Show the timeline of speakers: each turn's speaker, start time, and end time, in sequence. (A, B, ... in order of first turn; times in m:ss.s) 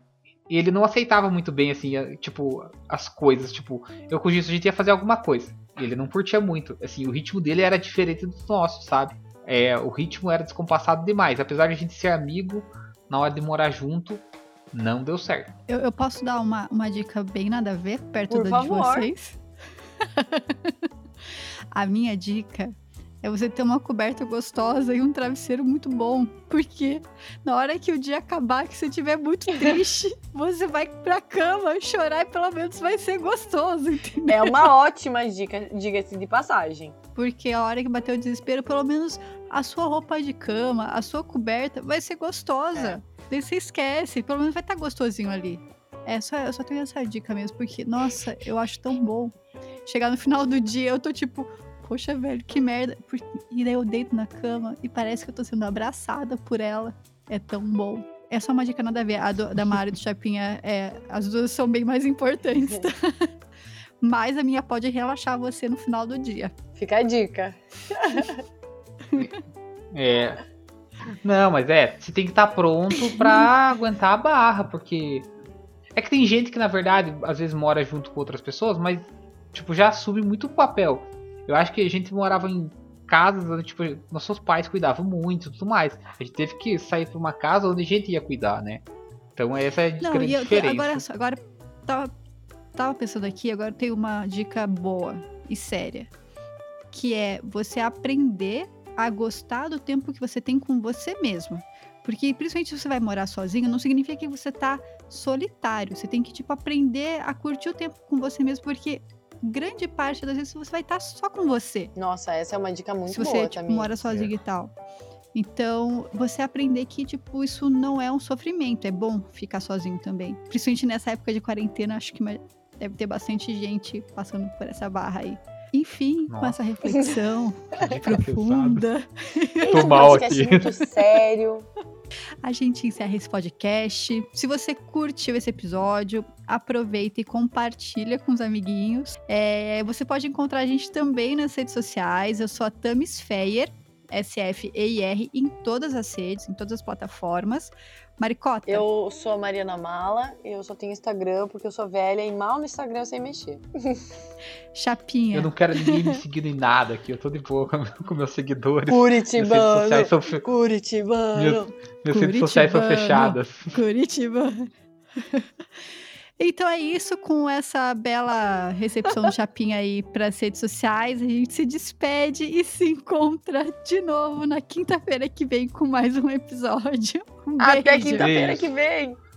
0:00.5-0:15.5 A
0:15.7-0:19.4 B
0:18.3-0:19.1 C
0:20.1-0:20.9 B
0:21.7-0:34.6 B
0:34.2-0:37.0 C
0:37.2-0:49.4 B
0:49.9-1:03.3 B
1:02.6-1:02.9 C
1:04.0-1:06.5 B
1:06.8-1:08.4 C
1:09.9-1:10.4 A
1:11.2-1:15.3 A
1:13.2-1:13.5 B
1:16.0-1:28.8 A
1:29.4-1:31.0 A
1:30.0-1:32.1 B
1:32.8-1:36.1 B
1:36.9-1:51.9 B
1:52.0-1:54.1 C
1:53.1-1:54.7 B
1:55.3-2:10.2 B
2:06.3-2:06.7 A
2:07.7-2:08.9 A
2:09.6-2:11.7 C
2:09.7-2:10.7 A
2:12.4-2:28.8 B
2:28.7-2:34.0 C
2:34.7-2:36.2 B
2:35.3-2:40.4 A
2:38.9-2:41.7 C
2:41.4-2:43.8 A
2:42.1-2:45.5 B
2:46.4-2:58.3 B
2:57.6-2:59.2 C
2:58.2-2:58.7 A